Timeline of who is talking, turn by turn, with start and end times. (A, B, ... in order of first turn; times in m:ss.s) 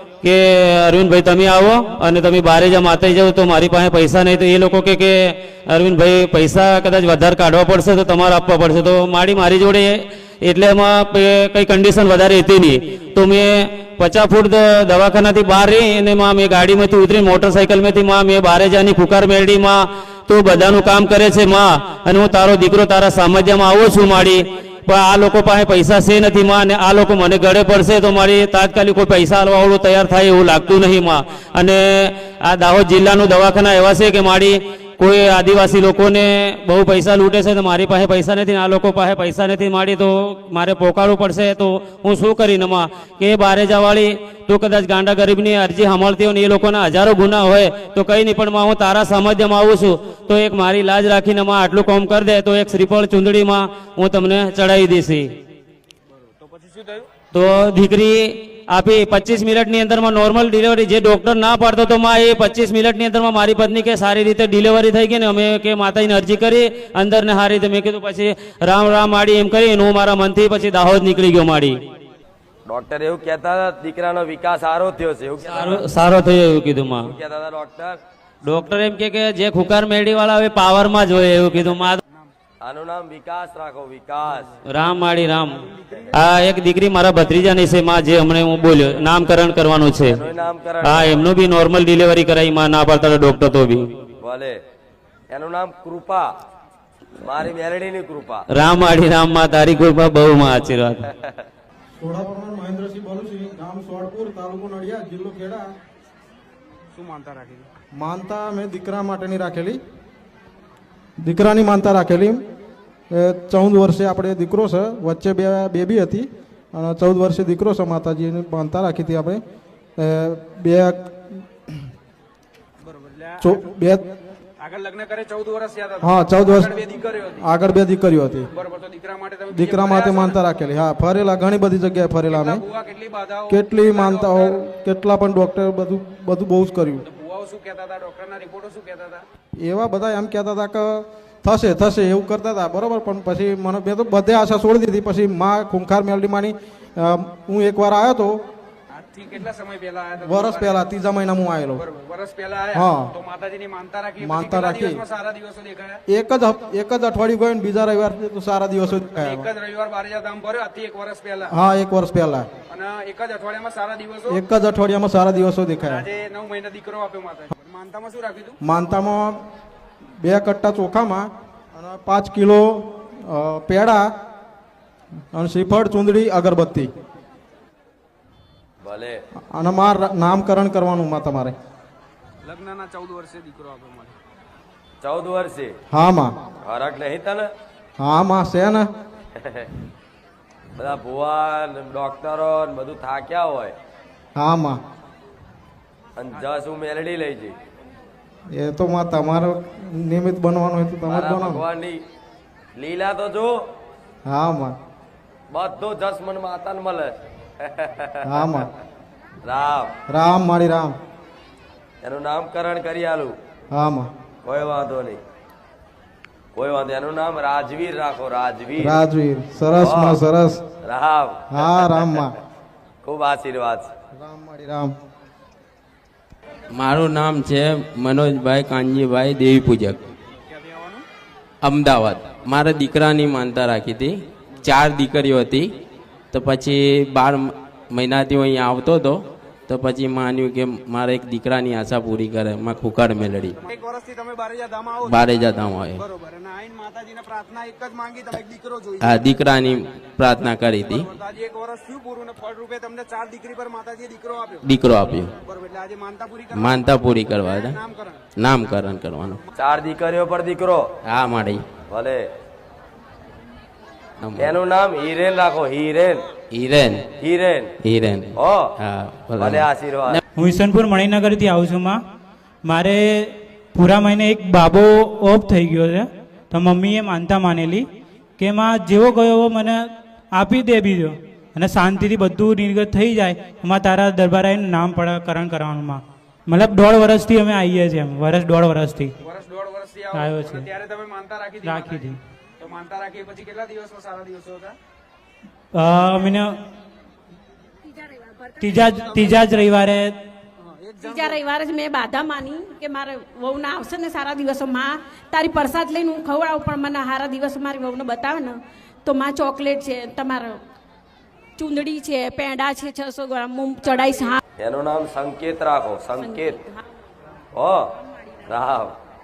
0:00.2-0:55.3 A
0:57.3-1:11.8 A
1:12.7-1:15.8 B
1:15.6-1:17.0 A
1:17.0-1:18.0 B
1:18.4-1:22.0 A
1:22.6-1:24.5 B
1:24.7-1:25.6 A
1:26.2-1:30.1 A
1:30.1-1:31.3 B
1:30.9-1:33.8 A
1:34.2-1:34.6 B
1:35.3-1:36.3 B
1:37.2-1:38.4 B
1:38.6-1:41.0 A
1:42.0-1:45.6 C
1:48.0-1:49.8 C
1:51.2-1:52.4 C
1:53.1-1:59.4 C
2:00.0-2:01.8 C
2:03.4-2:04.0 C
2:04.7-2:05.9 D
2:06.0-2:06.8 C
2:07.4-2:08.5 C
2:08.6-2:10.3 D
2:09.5-2:12.6 C
2:12.8-2:13.4 D
2:13.5-2:17.0 C
2:17.2-2:19.1 D
2:19.6-2:28.4 C
2:29.2-2:30.7 D
2:30.2-2:31.8 C
2:31.9-2:32.6 D
2:32.7-2:33.1 C
2:33.2-2:34.1 D
2:34.2-2:35.0 C
2:34.7-2:35.9 D
2:36.1-2:39.5 C
2:39.4-2:41.4 D
2:41.5-2:42.5 C
2:42.8-2:44.2 D
2:44.3-2:46.1 C
2:46.1-2:48.5 D
2:48.6-2:49.4 C
2:50.2-2:54.0 C
2:55.3-2:56.9 C
2:58.8-2:59.2 B
2:59.5-3:01.5 C
3:05.0-3:05.7 B
3:05.9-3:06.4 C
3:06.6-3:07.5 B
3:08.0-3:08.9 C
3:10.8-3:13.8 B
3:14.4-3:14.8 C
3:16.2-3:17.6 B
3:18.5-3:21.6 C
3:21.1-3:22.0 B
3:22.8-3:23.5 B
3:24.3-3:24.8 C
3:25.5-3:28.6 B
3:28.2-3:28.7 C
3:29.4-3:29.9 B
3:30.1-3:31.0 C
3:32.0-3:33.3 B
3:33.7-3:34.1 C
3:34.4-3:35.2 B
3:36.6-3:39.0 B
3:38.8-3:40.6 C
3:39.8-3:40.2 B
3:40.8-3:42.2 B
3:41.5-3:42.4 C
3:43.0-3:43.9 B
3:44.1-3:44.9 C
3:46.7-3:50.1 E
3:51.6-3:55.8 E
3:56.3-4:03.6 E
4:03.8-4:04.9 D
4:05.0-4:06.0 E
4:06.1-4:08.9 D
4:09.0-4:11.1 E
4:11.2-4:14.3 D
4:14.6-4:15.3 E
4:15.5-4:16.3 D
4:16.5-4:19.4 E
4:19.6-4:20.8 B
4:21.0-4:21.7 E
4:21.9-4:22.2 B
4:24.2-4:24.6 E
4:24.4-4:26.2 B
4:26.5-4:27.1 E
4:27.2-4:27.7 B
4:27.8-4:30.2 E
4:28.4-4:28.7 B
4:29.4-4:30.2 B
4:30.4-4:32.0 F
4:32.6-4:37.9 F
4:38.4-4:49.1 F
4:49.3-4:51.6 D
4:50.1-4:50.7 F
4:51.6-4:52.2 F
4:52.6-4:54.7 D
4:55.7-4:56.6 F
4:58.6-5:00.2 F
5:00.8-5:01.4 D
5:01.0-5:10.6 G
5:11.6-5:14.4 G
5:14.6-5:16.6 B
5:16.2-5:16.7 G
5:17.6-5:17.8 B
5:18.5-5:19.0 B